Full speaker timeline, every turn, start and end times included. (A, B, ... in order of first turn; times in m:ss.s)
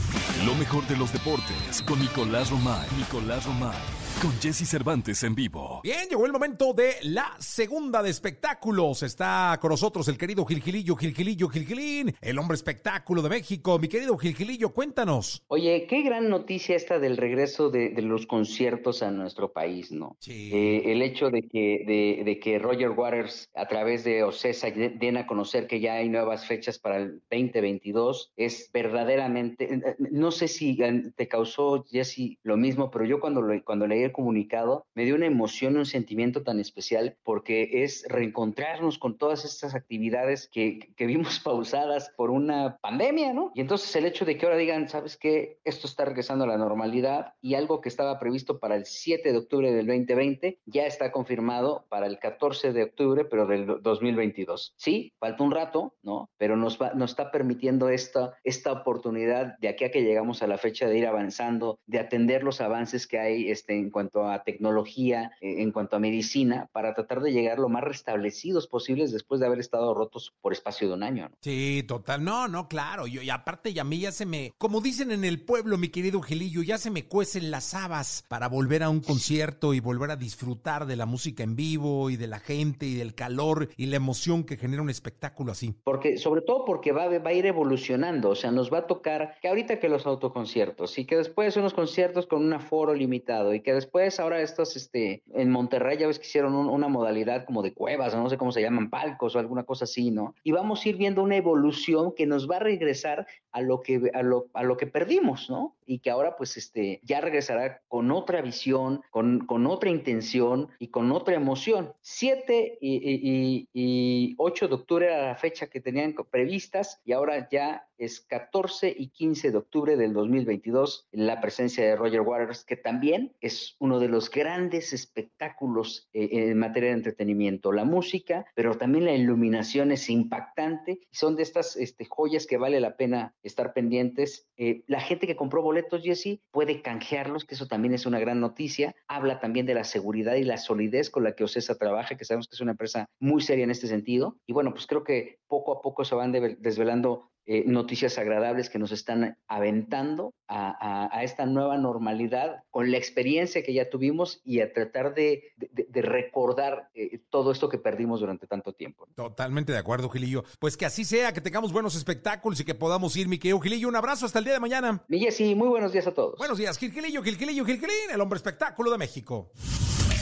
0:00.3-0:05.8 A
0:05.8-0:15.4 B
0:15.5-1:11.3 C
0:20.2-0:20.8 B
1:11.4-1:25.8 B
1:25.8-2:39.1 C
2:39.2-2:45.0 B
2:45.1-2:46.5 C
2:46.4-2:49.5 B